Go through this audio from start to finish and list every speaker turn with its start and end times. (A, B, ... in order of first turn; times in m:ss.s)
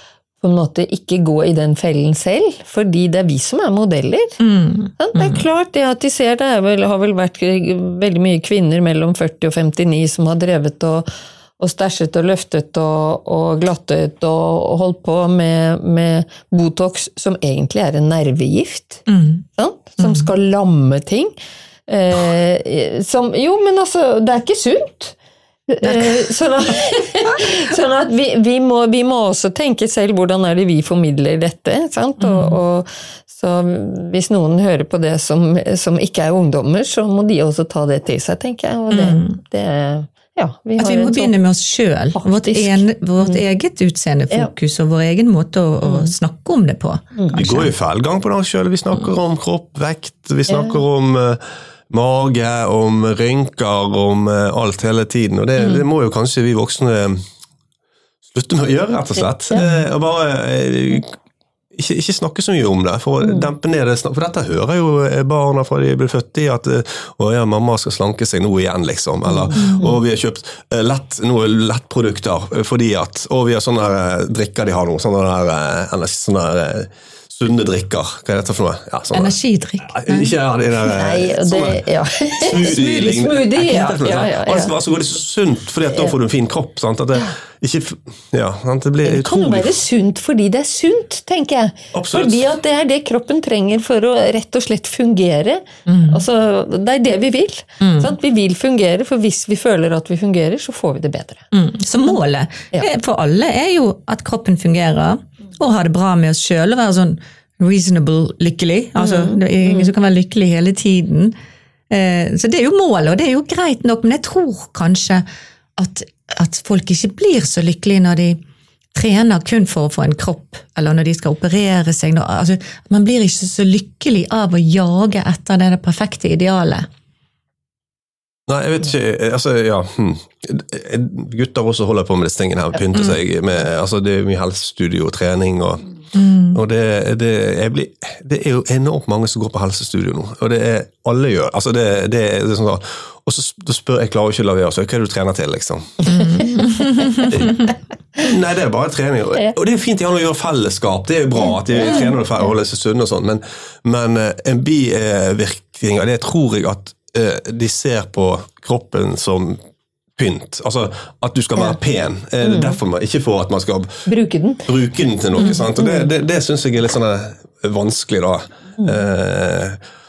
0:00.4-0:04.4 A
0:04.4-0:05.4 B
0:05.0-0:21.3 A
0:19.1-0:19.4 B
0:20.0-0:20.3 B
0:21.9-0:25.2 A
0:25.7-0:41.3 A
0:25.8-0:27.4 B
0:32.2-0:32.6 B
0:38.9-0:39.3 B
0:40.8-0:47.7 B
0:42.1-0:43.4 A
0:45.8-0:46.1 A
0:47.3-0:57.2 C
0:50.5-0:50.8 A
0:58.3-1:01.2 C
1:01.7-1:19.3 C
1:09.3-1:09.9 A
1:09.5-1:09.8 B
1:19.1-1:20.3 B
1:19.9-1:21.8 C
1:20.9-1:24.7 A
1:22.4-1:29.7 C
1:29.0-1:41.4 A
1:31.9-1:32.4 C
1:35.9-1:36.2 B
1:37.8-1:38.1 B
1:41.5-1:51.3 B
1:49.0-1:49.9 A
1:51.9-1:55.2 B
1:55.8-1:58.4 B
1:58.9-2:06.9 B
2:08.5-2:15.9 C
2:16.1-2:16.6 B
2:16.5-2:26.0 C
2:26.0-2:27.1 A
2:26.1-2:27.6 B
2:27.3-2:27.6 C
2:28.2-2:39.6 C
2:40.2-2:44.0 C
2:42.4-2:42.7 A
2:44.1-2:44.6 A
2:44.7-2:49.8 C